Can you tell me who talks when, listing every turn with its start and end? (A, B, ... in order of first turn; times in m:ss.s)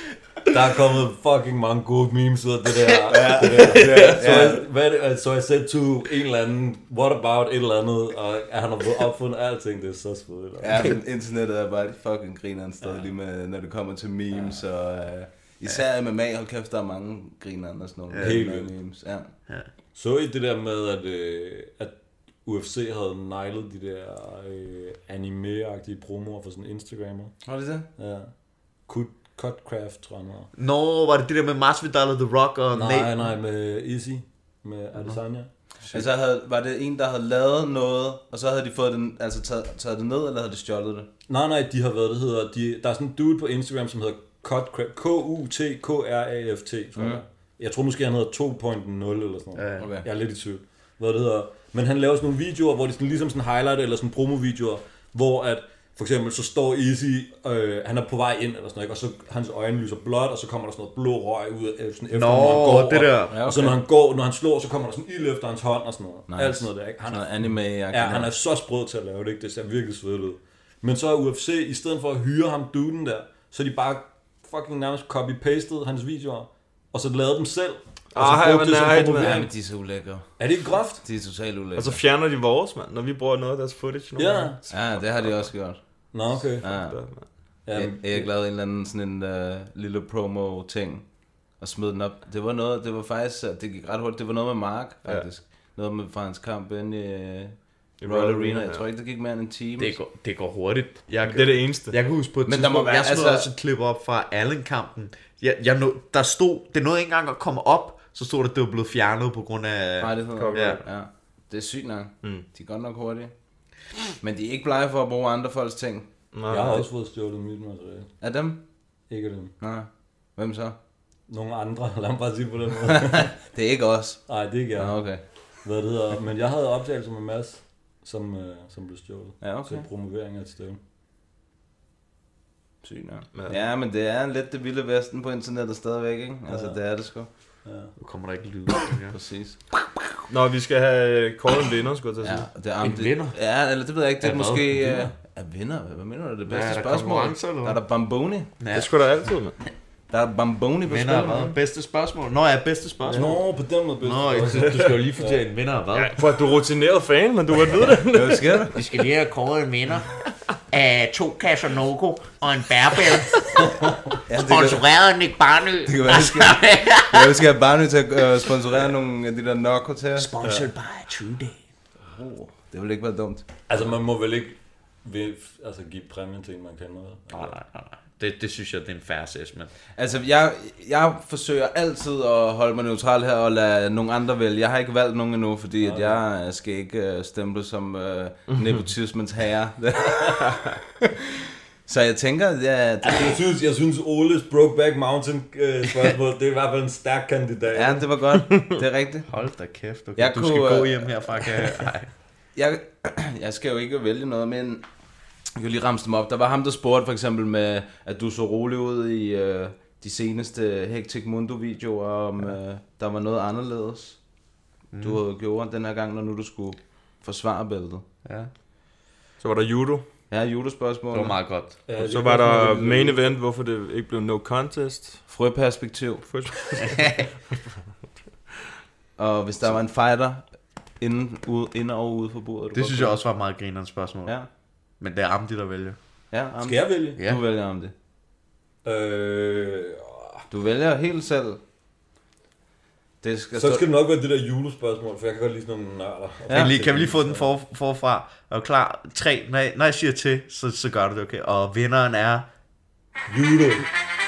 0:00.5-0:10.9 A
0:03.1-0:04.6 B
0:10.6-0:19.3 B
0:18.1-0:18.4 C
0:18.2-0:18.7 A
0:19.9-0:30.5 A
0:27.4-0:27.9 B
0:30.5-0:33.3 C
0:32.7-0:36.0 A
0:35.9-0:41.1 B
0:41.3-1:19.6 A
0:47.0-0:47.2 B
0:49.6-0:49.9 C
0:49.8-0:50.1 B
1:02.1-1:03.4 C
1:03.3-1:03.8 B
1:06.3-1:08.3 B
1:18.1-1:19.4 D
1:19.2-1:22.0 B
1:20.4-1:21.0 A
1:21.8-1:25.5 D
1:24.2-1:24.6 A
1:24.7-1:40.0 B
1:26.1-1:26.6 A
1:26.7-1:27.3 D
1:27.6-1:28.3 A
1:38.0-1:38.8 D
1:39.8-1:50.8 C
1:41.2-1:42.0 D
1:42.4-1:43.5 B
1:50.0-1:53.3 B
1:50.4-1:50.8 D
1:54.2-1:56.1 B
1:56.3-1:56.8 D
1:56.5-1:58.1 A
1:58.2-1:58.6 B
1:59.1-1:59.5 A
1:59.6-2:00.8 B
2:01.3-2:03.3 A
2:03.4-2:05.2 B
2:04.3-2:10.8 A
2:09.4-2:09.8 B
2:12.8-2:17.3 B
2:16.5-2:17.9 A
2:18.0-2:19.2 C
2:19.1-2:19.6 B
2:20.3-2:22.5 D
2:22.2-2:28.5 B
2:22.8-2:23.4 C
2:24.2-2:25.0 C
2:24.8-2:25.1 A
2:26.5-2:27.8 C
2:28.6-2:29.1 C
2:28.7-2:29.6 D
2:30.1-2:31.6 B
2:30.8-2:33.4 C
2:33.1-2:35.4 A
2:34.0-2:36.2 C
2:36.0-2:38.6 D
2:38.1-2:38.7 B
2:38.7-2:40.1 C
2:40.7-2:43.8 C
2:44.3-2:44.8 B
2:44.3-2:47.4 C
2:45.8-2:50.3 B
2:50.2-2:51.6 C
2:50.4-2:50.7 A
2:52.1-2:53.4 B
2:53.7-2:57.5 A
2:57.3-2:59.7 C
3:00.0-3:10.6 B
3:05.8-3:06.2 A
3:11.8-3:13.4 B
3:13.0-3:18.1 A
3:17.7-3:19.3 B
3:19.3-3:22.1 C
3:20.2-3:21.5 B
3:22.5-3:24.8 B
3:25.6-3:34.2 B
3:34.9-3:35.2 C
3:35.0-3:38.0 B
3:38.2-3:38.5 C
3:39.4-3:40.0 D
3:40.3-3:41.4 B
3:41.1-3:41.8 C
3:41.9-3:43.3 A
3:42.0-3:45.2 D
3:45.3-3:46.4 B
3:46.3-3:47.0 D
3:46.8-3:47.2 C
3:49.2-3:53.2 B
3:52.7-3:54.4 C
3:55.0-3:56.0 C
3:56.3-3:57.9 B
3:56.6-3:57.2 A
3:58.8-4:00.4 A
4:00.5-4:01.6 B
4:03.2-4:03.8 B
4:03.5-4:07.5 A
4:06.5-4:12.5 C
4:13.3-4:13.8 A